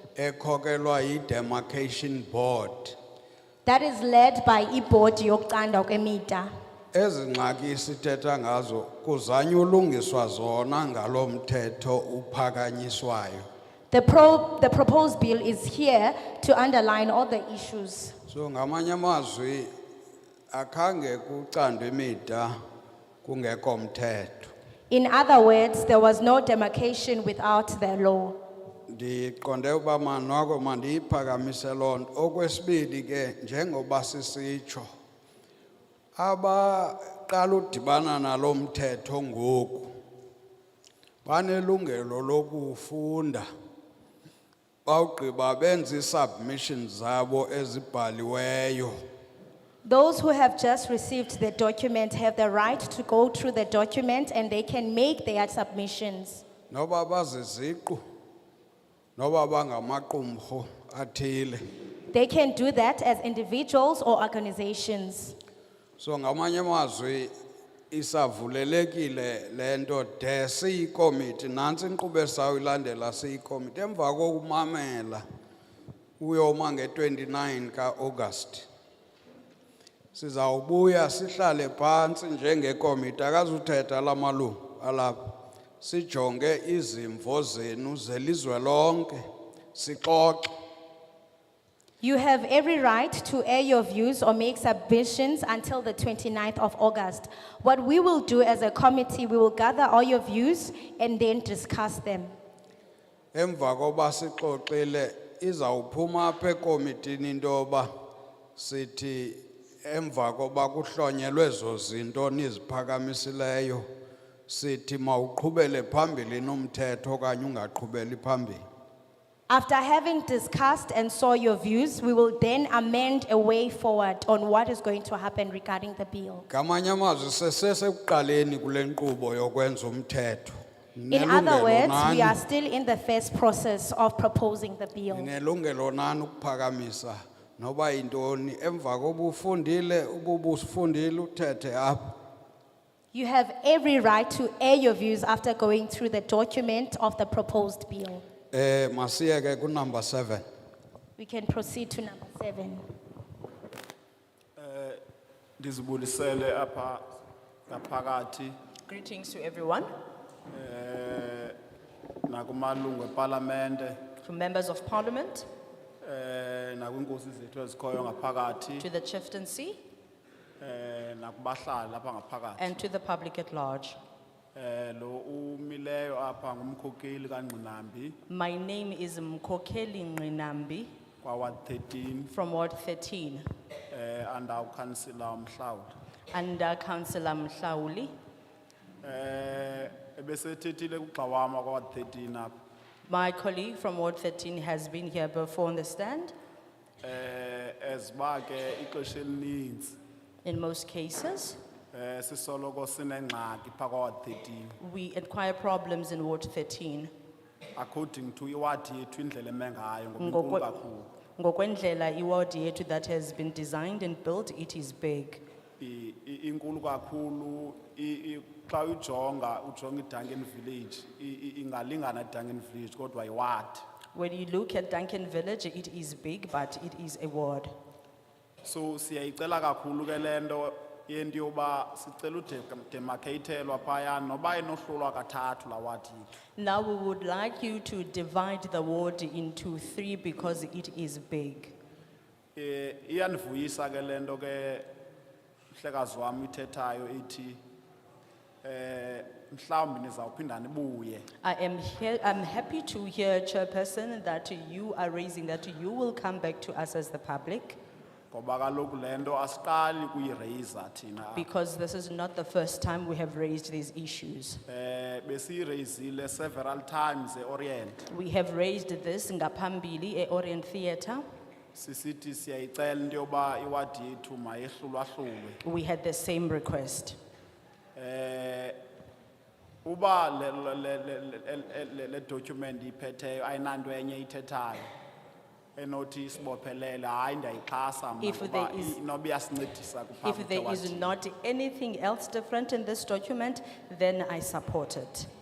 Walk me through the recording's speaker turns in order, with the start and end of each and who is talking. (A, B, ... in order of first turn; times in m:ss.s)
0:00.2-0:03.0 A
0:03.6-0:06.5 B
0:06.9-0:13.4 A
0:13.9-0:18.1 B
0:18.3-0:19.7 A
0:20.5-0:22.5 A
0:23.2-0:24.5 A
0:24.9-0:28.4 B
0:28.9-0:34.9 A
0:36.2-0:39.9 A
0:41.2-0:43.4 A
0:44.8-0:49.0 A
0:49.8-0:56.4 B
0:56.7-0:58.0 A
0:59.2-1:01.6 A
1:02.1-1:05.4 B
1:06.0-1:07.3 A
1:07.9-1:15.2 A
1:16.2-1:18.7 A
1:20.1-1:29.2 A
1:29.7-1:30.5 A
1:32.0-1:42.3 B
1:43.3-1:47.9 A
1:48.6-1:53.8 A
1:54.5-1:58.6 A
1:59.5-2:06.4 B
2:06.5-2:12.4 A
2:11.1-2:15.3 B
2:15.1-2:22.1 A
2:23.1-2:28.2 B
2:28.5-2:30.4 A
2:31.2-2:32.8 B
2:34.6-2:35.0 C
2:35.6-2:37.0 C
2:37.7-2:38.5 C
2:38.9-2:39.9 D
2:40.5-2:41.6 C
2:42.3-2:44.0 C
2:44.2-2:45.5 D
2:46.0-2:48.8 C
2:48.8-2:49.8 D
2:50.6-2:52.7 C
2:52.6-2:54.0 D
2:54.5-2:58.2 C
2:58.3-3:00.9 D
3:01.2-3:02.3 C
3:02.3-3:03.4 D
3:03.9-3:05.9 C
3:06.3-3:08.1 D
3:09.0-3:12.6 C
3:13.1-3:16.3 D
3:17.0-3:20.0 C
3:20.4-3:21.6 D
3:21.9-3:24.8 C
3:24.8-3:27.1 D
3:27.8-3:31.1 C
3:30.2-3:30.7 D
3:31.4-3:35.4 D
3:35.8-3:43.8 C
3:44.1-3:47.7 D
3:48.6-3:56.3 C
3:56.6-4:01.7 D
4:02.5-4:04.9 C
4:05.7-4:07.6 C
4:08.6-4:11.2 C
4:11.4-4:17.8 D
4:18.3-4:21.5 C
4:21.3-4:24.6 D
4:24.7-4:28.0 C
4:28.1-4:31.2 D
4:31.7-4:35.6 C
4:35.6-4:37.2 D
4:38.0-4:38.7 C
4:39.8-4:44.9 C
4:45.8-4:51.1 C
4:48.2-4:49.0 D
4:50.2-4:55.3 D